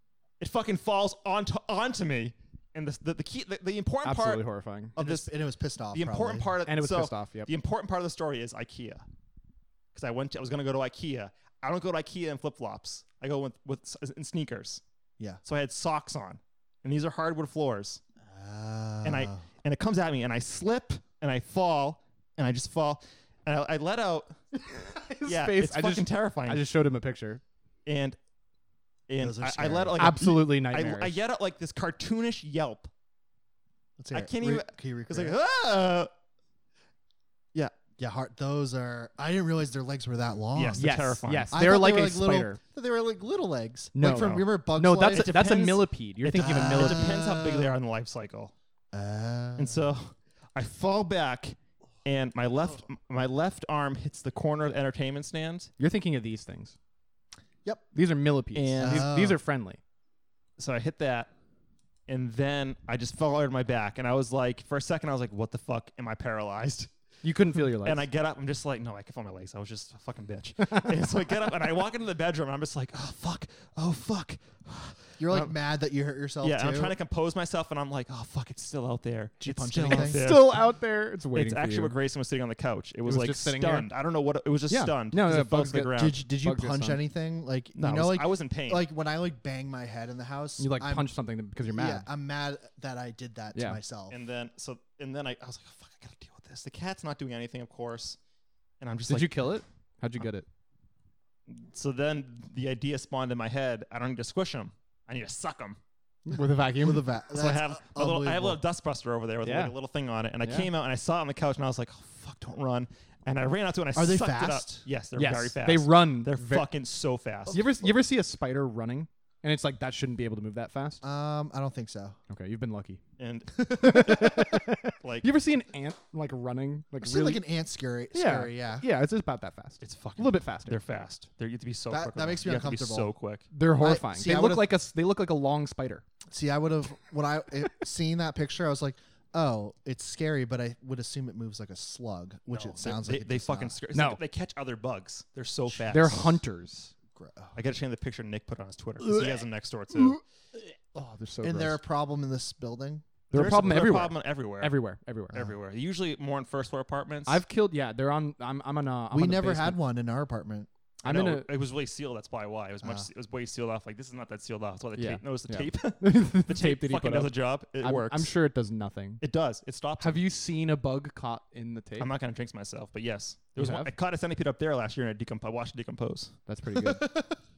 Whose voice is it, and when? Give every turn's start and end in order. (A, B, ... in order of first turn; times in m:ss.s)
0:00.4-0:04.4 A
0:04.0-0:04.9 B
0:05.0-0:05.3 A
0:05.0-0:06.5 C
0:05.9-0:09.0 A
0:06.6-0:07.5 B
0:09.9-0:14.8 A
0:15.4-0:18.0 A
0:18.2-0:19.4 C
0:19.0-0:24.4 A
0:24.6-0:27.4 B
0:25.2-0:26.6 A
0:27.9-0:28.2 A
0:29.1-0:32.9 A
0:29.2-0:30.1 C
0:30.0-0:31.1 B
0:34.0-0:35.4 C
0:34.1-0:36.1 A
0:38.0-0:40.9 C
0:40.5-0:41.5 A
0:40.8-0:42.6 B
0:41.5-0:45.3 C
0:43.9-0:47.2 B
0:44.0-0:44.4 A
0:45.1-0:48.5 A
0:46.4-0:47.8 C
0:48.9-0:49.9 C
0:49.6-0:55.7 A
0:55.8-0:56.8 B
0:57.9-0:59.8 B
0:58.5-0:59.1 A
0:58.8-0:59.4 C
1:00.6-1:01.3 A
1:02.1-1:06.9 A
1:07.2-1:08.0 B
1:07.8-1:15.4 A
1:15.2-1:17.0 C
1:16.4-1:20.6 A
1:19.4-1:20.4 C
1:19.9-1:21.9 B
1:21.3-1:26.2 A
1:23.0-1:23.9 B
1:24.7-1:27.0 B
1:25.9-1:31.1 C
1:27.8-1:28.9 A
1:30.6-1:32.1 B
1:31.7-1:34.2 C
1:33.5-1:33.8 B
1:34.1-1:38.2 A
1:38.8-1:39.5 A
1:39.1-1:40.5 B
1:41.5-1:45.8 A
1:46.2-1:47.1 B
1:46.8-1:48.6 C
1:47.3-1:57.8 A
1:49.4-1:49.8 B
1:50.4-1:50.7 B
1:53.9-1:54.8 C
1:55.1-1:56.7 B
1:57.5-2:01.0 B
2:01.0-2:02.2 C
2:02.3-2:03.0 B
2:03.2-2:04.3 A
2:03.7-2:07.4 B
2:04.2-2:04.5 C
2:05.0-2:05.3 A
2:07.0-2:08.9 C
2:08.1-2:10.8 B
2:09.8-2:13.5 A
2:11.9-2:13.1 C
2:13.5-2:16.0 B
2:13.7-2:14.7 C
2:16.3-2:23.8 C
2:22.5-2:26.4 A
2:23.9-2:24.2 B
2:25.8-2:26.9 B
2:27.1-2:27.6 C
2:27.5-2:30.2 A
2:29.0-2:31.8 B
2:31.4-2:33.1 C
2:33.3-2:35.4 B
2:33.3-2:34.8 A
2:35.3-2:37.4 A
2:37.2-2:39.8 B
2:39.1-2:40.7 C
2:41.0-2:41.5 B
2:41.0-2:48.3 A
2:42.8-2:43.1 C
2:45.0-2:49.2 B
2:49.2-2:50.2 A
2:50.0-2:52.1 B
2:52.0-2:56.4 A
2:53.6-2:53.9 B
2:56.5-2:57.3 B
2:56.7-2:57.4 C